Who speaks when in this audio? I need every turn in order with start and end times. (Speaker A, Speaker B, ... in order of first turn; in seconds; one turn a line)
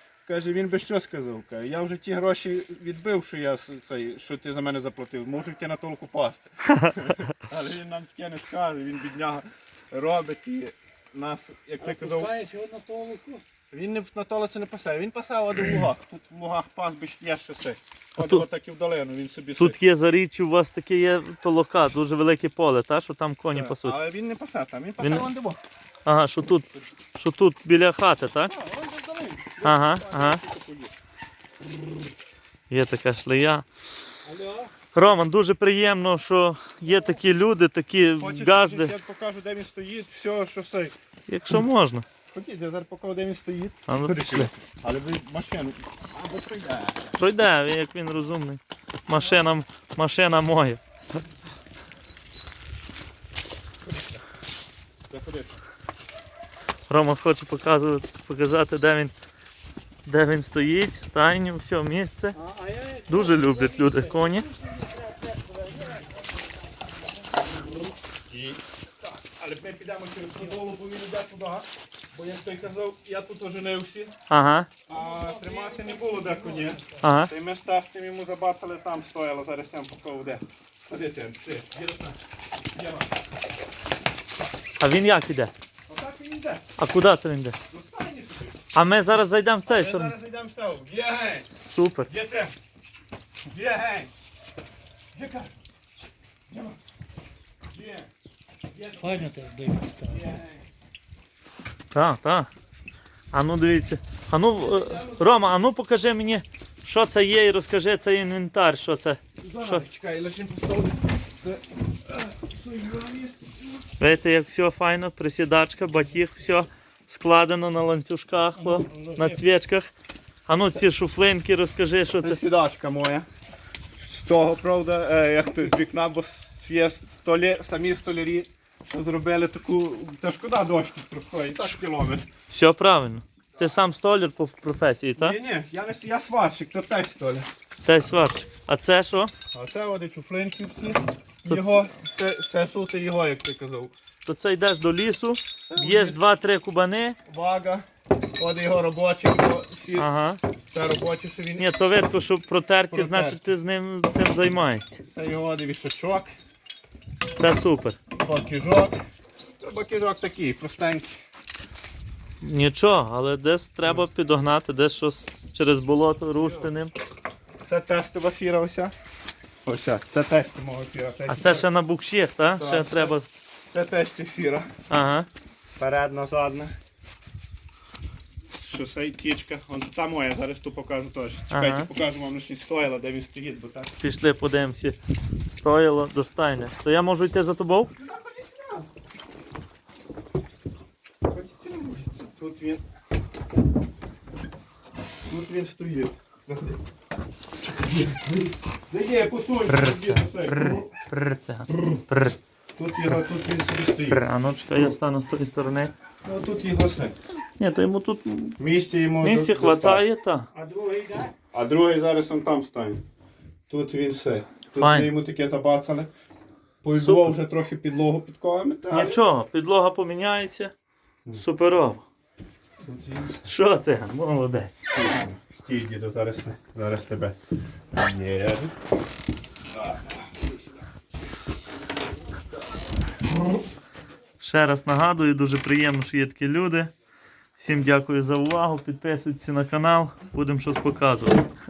Speaker A: 0.2-12.4
Speaker B: 6.7-6.9
Speaker C: 11.8-13.4
Speaker A: 13.7-19.8
Speaker B: 18.2-18.4
Speaker B: 19.6-24.0
Speaker A: 23.5-25.6
Speaker B: 25.0-25.3
Speaker B: 26.1-28.5
Speaker A: 28.4-30.9
Speaker B: 29.6-30.4
Speaker B: 32.7-33.7
Speaker A: 34.3-34.7
Speaker B: 34.9-38.9
Speaker A: 38.2-40.9
Speaker B: 41.3-42.1
Speaker A: 42.3-47.2
Speaker B: 43.9-44.5
Speaker B: 47.2-50.8
Speaker A: 55.1-55.6
Speaker B: 56.9-59.1
Speaker B: 60.0-62.4
Speaker C: 62.4-66.2
Speaker B: 63.1-64.5
Speaker C: 67.4-67.9
Speaker A: 68.3-74.1
Speaker B: 74.3-74.7
Speaker A: 74.9-82.2
Speaker C: 75.2-76.4
Speaker B: 77.0-77.3
Speaker A: 82.8-83.1
Speaker B: 84.8-85.5
Speaker A: 85.9-86.7
Speaker B: 86.8-87.6
Speaker A: 87.7-88.6
Speaker B: 88.7-90.1
Speaker A: 89.7-91.5
Speaker B: 91.5-92.1
Speaker A: 92.1-92.5
Speaker A: 93.5-94.1
Speaker A: 95.1-95.6
Speaker A: 96.5-96.8
Speaker A: 97.7-98.1
Speaker A: 98.8-99.3
Speaker C: 99.0-100.2
Speaker A: 100.0-100.7
Speaker B: 101.9-102.5
Speaker B: 103.3-109.9
Speaker A: 104.6-105.3
Speaker A: 109.4-113.8
Speaker B: 114.0-119.9
Speaker C: 118.6-119.4
Speaker B: 120.5-122.4
Speaker A: 122.2-123.3
Speaker A: 124.0-132.3
Speaker B: 132.5-135.4
Speaker A: 135.2-137.5
Speaker B: 137.8-139.3
Speaker A: 139.5-143.9
Speaker B: 144.2-147.2
Speaker A: 145.7-146.2
Speaker A: 147.3-147.8
Speaker A: 148.4-150.1
Speaker B: 150.0-150.4
Speaker A: 150.7-151.7
Speaker B: 151.6-155.0
Speaker A: 152.9-153.4
Speaker A: 155.1-156.3
Speaker B: 157.3-158.0
Speaker A: 158.2-159.0
Speaker A: 159.6-161.1
Speaker B: 162.4-166.9
Speaker A: 166.4-166.7
Speaker A: 167.7-168.9
Speaker A: 169.7-171.7
Speaker B: 171.3-173.2
Speaker A: 172.6-173.2
Speaker A: 173.7-174.7
Speaker B: 174.9-175.3
Speaker A: 175.8-176.8
Speaker A: 178.5-183.9
Speaker B: 181.5-181.9
Speaker B: 184.0-187.9
Speaker A: 188.0-188.9
Speaker A: 191.3-192.8
Speaker A: 195.3-196.8
Speaker A: 197.7-200.8
Speaker B: 199.7-202.4
Speaker A: 202.8-204.2
Speaker B: 204.1-205.9
Speaker A: 206.2-207.2
Speaker B: 207.6-208.6
Speaker A: 208.6-210.0
Speaker B: 209.2-210.5
Speaker C: 210.5-211.3
Speaker A: 211.5-213.0
Speaker A: 213.7-216.1
Speaker B: 214.8-215.1
Speaker A: 216.8-219.2
Speaker B: 216.9-217.3
Speaker B: 218.9-220.7
Speaker B: 221.4-222.0
Speaker A: 222.8-223.4
Speaker B: 223.4-224.8
Speaker A: 224.9-227.4
Speaker A: 227.9-228.8
Speaker A: 229.7-230.6
Speaker B: 234.4-236.9
Speaker B: 237.6-241.5